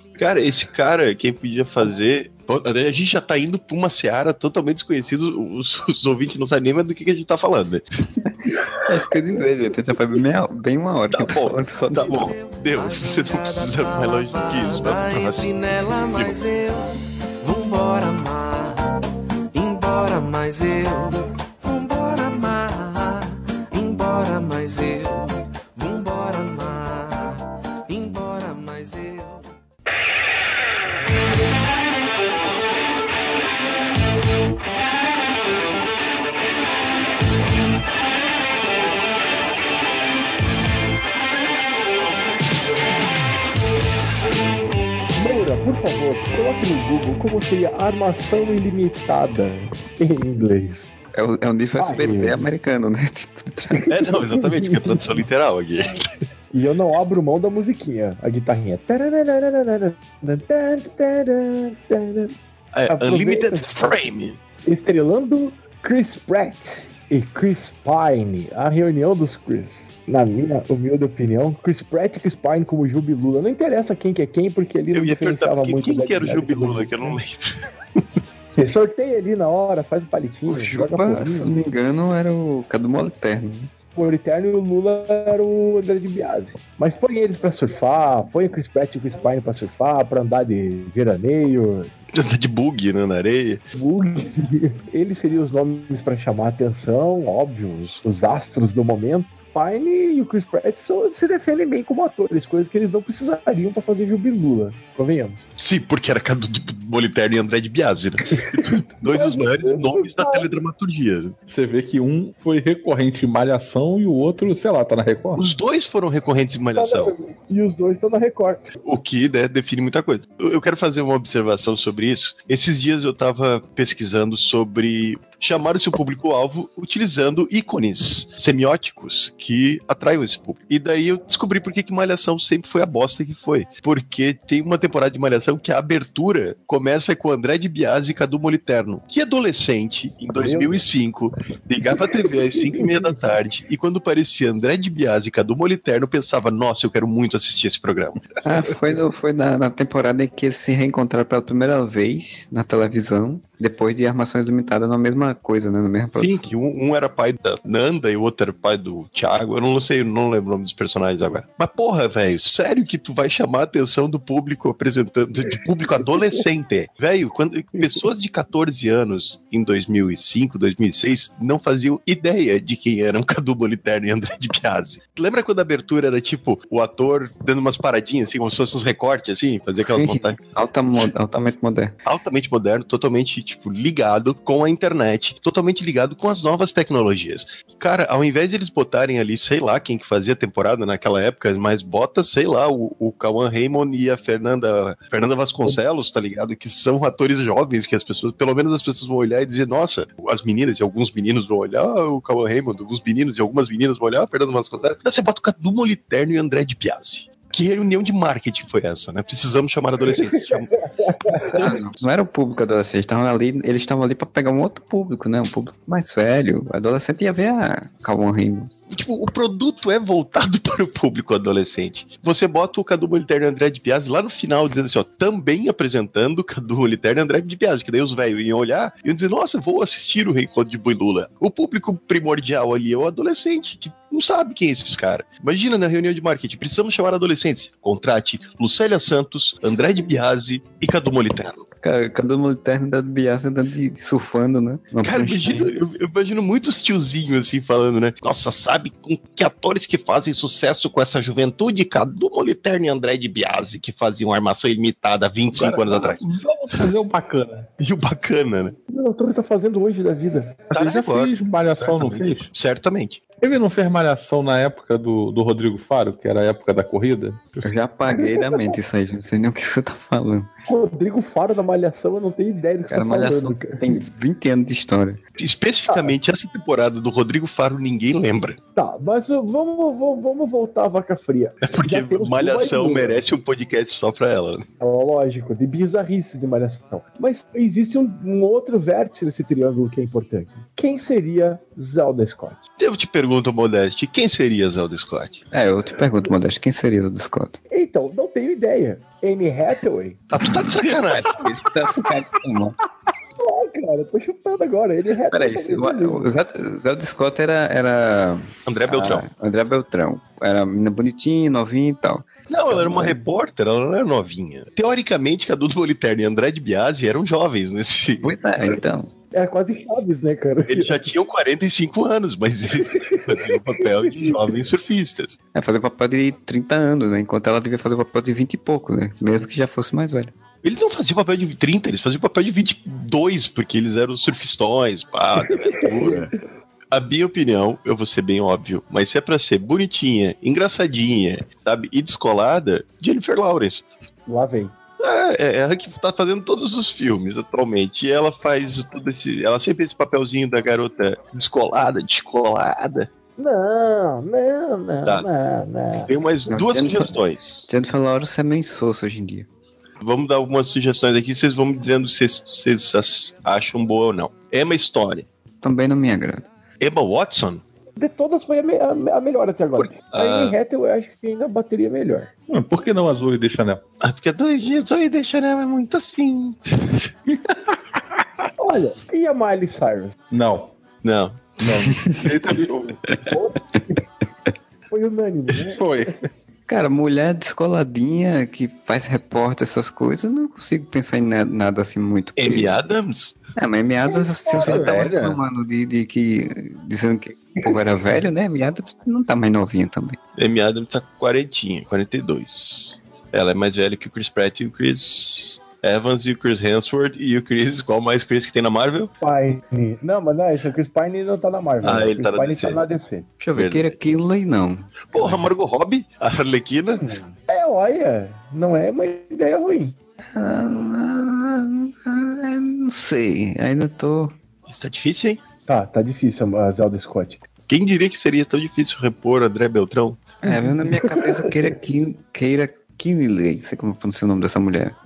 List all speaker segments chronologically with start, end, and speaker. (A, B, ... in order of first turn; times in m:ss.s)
0:00.2-0:07.8 A
0:08.9-0:12.3 B
0:11.1-0:15.5 A
0:11.9-0:18.9 C
0:19.5-0:29.5 C
0:45.2-0:50.9 D
0:51.1-0:53.9 B
0:51.8-0:52.4 D
0:53.8-0:55.0 D
0:53.9-0:56.1 A
0:56.5-1:02.3 D
1:02.7-1:04.4 A
1:02.9-1:03.9 D
1:04.6-1:17.2 D
1:14.9-1:18.0 A
1:18.6-1:21.6 D
1:20.5-1:23.7 B
1:24.0-1:31.9 D
1:32.1-1:33.6 A
1:33.8-1:45.4 D
1:45.6-1:51.4 A
1:48.4-1:50.5 D
1:51.5-1:55.4 E
1:55.4-1:57.1 A
1:56.8-1:58.6 D
1:58.8-2:28.4 A
2:20.3-2:20.8 D
2:22.2-2:23.1 D
2:28.4-2:36.5 B
2:36.2-3:00.4 A
2:59.8-3:02.0 B
3:02.0-3:30.7 A
3:30.7-3:31.4 D
3:31.3-3:32.0 A
3:31.5-3:38.7 B
3:38.9-4:01.6 A
4:01.8-4:05.7 B
4:05.0-4:16.2 A
4:15.5-4:17.7 E
4:17.8-4:18.8 A
4:18.9-4:20.6 D
4:20.7-4:23.2 A
4:20.7-4:22.5 E
4:23.4-4:27.4 E
4:27.6-4:30.5 B
4:30.7-4:33.8 D
4:32.9-4:35.2 B
4:35.4-4:38.6 A
4:38.8-4:43.2 D
4:41.6-4:44.7 A
4:44.8-4:52.6 D
4:52.8-4:55.4 A
4:55.5-4:57.6 B
4:57.7-5:00.2 D
5:00.3-5:01.4 A
5:01.1-5:02.8 B
5:03.4-5:06.3 D
5:05.3-5:12.3 B
5:08.7-5:09.3 A
5:12.5-5:18.3 A
5:12.9-5:13.2 D
5:18.2-5:19.1 B
5:19.3-5:21.0 D
5:20.7-5:25.4 A
5:22.9-5:23.4 D
5:24.0-5:24.4 D
5:25.5-5:30.3 B
5:30.6-5:36.3 A
5:35.5-5:36.3 D
5:36.9-5:43.8 A
5:44.3-5:44.7 D
5:45.0-5:53.1 A
5:53.4-5:56.1 D
5:56.1-5:57.7 A
5:56.5-5:57.2 B
5:57.7-5:59.5 B
6:00.0-6:05.3 A
6:05.6-6:06.5 B
6:06.8-6:07.6 A
6:08.0-6:12.3 D
6:09.8-6:10.6 A
6:12.5-6:13.8 E
6:14.0-6:17.1 A
6:17.3-6:17.8 E
6:18.6-6:20.2 D
6:20.3-6:20.7 E
6:21.0-6:21.6 A
6:21.6-6:23.2 E
6:23.3-6:24.0 D
6:24.9-6:25.8 D
6:25.7-6:26.3 E
6:26.7-6:32.8 B
6:32.4-6:33.4 A
6:33.6-6:40.2 B
6:34.5-6:35.4 E
6:40.4-6:49.1 A
6:49.2-6:53.3 D
6:51.8-6:52.8 A
6:53.4-6:55.5 B
6:53.5-6:54.0 A
6:55.1-6:57.2 A
6:57.0-7:00.0 D
7:00.3-7:04.4 B
7:04.7-7:05.4 A
7:05.7-7:07.4 D
7:07.7-7:10.2 A
7:10.4-7:15.0 B
7:10.5-7:11.5 D